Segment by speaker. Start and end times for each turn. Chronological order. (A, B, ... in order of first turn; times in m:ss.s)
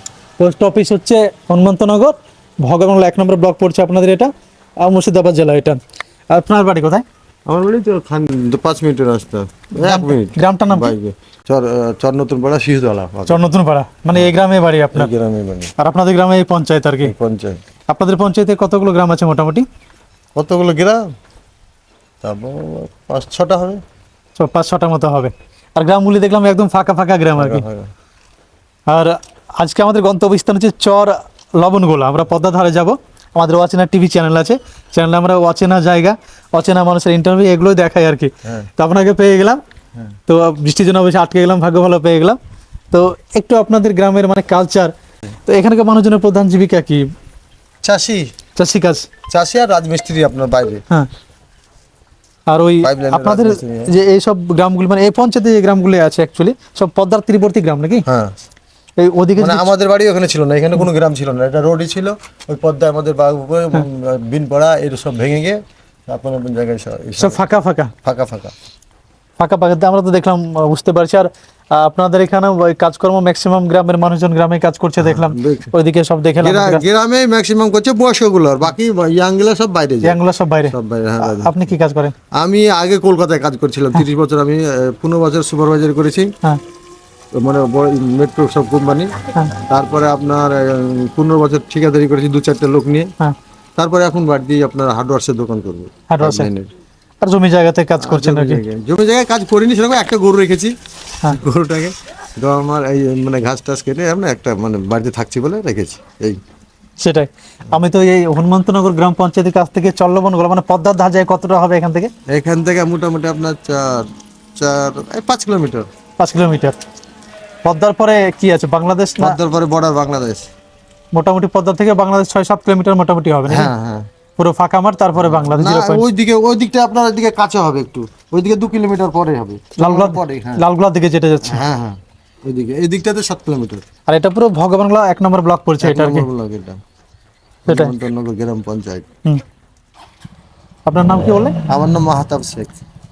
0:00.4-0:04.3 A
0:04.8-0:07.0 A
0:07.5-0:13.5 B
0:09.8-0:10.9 A
0:13.3-0:15.1 A
0:14.9-0:15.7 B
0:15.8-0:17.1 A
0:17.0-0:17.6 B
0:17.9-0:19.7 A
0:20.4-0:21.0 B
0:22.2-0:23.8 B
0:24.4-0:27.6 A
0:27.4-0:27.9 B
0:28.9-0:39.6 A
0:40.3-0:42.4 A
0:42.9-0:44.9 A
0:45.5-0:47.1 A
0:47.8-0:48.3 B
0:48.6-0:49.1 A
0:49.3-0:50.8 B
0:52.5-0:58.0 A
0:52.8-0:53.9 B
0:58.1-0:58.3 B
0:59.0-0:59.7 A
0:59.4-1:07.4 B
1:07.2-1:07.9 A
1:08.0-1:08.5 B
1:09.4-1:16.8 A
1:15.0-1:15.7 B
1:16.4-1:20.2 B
1:20.0-1:22.2 A
1:20.7-1:21.6 B
1:22.3-1:26.3 B
1:27.4-1:33.1 B
1:33.8-1:36.7 B
1:36.1-1:36.5 A
1:37.2-1:38.6 A
1:38.0-1:40.7 B
1:41.3-1:46.4 B
1:47.0-1:52.1 A
1:52.3-1:55.9 B
1:56.2-1:56.8 A
1:57.6-1:59.4 A
1:59.2-2:00.5 B
2:01.1-2:03.7 A
2:03.5-2:04.1 B
2:04.4-2:06.0 A
2:05.2-2:10.6 B
2:09.8-2:11.6 A
2:11.4-2:13.8 B
2:14.1-2:16.3 A
2:15.8-2:16.8 B
2:17.6-2:19.1 B
2:20.9-2:21.6 A
2:21.7-2:22.7 B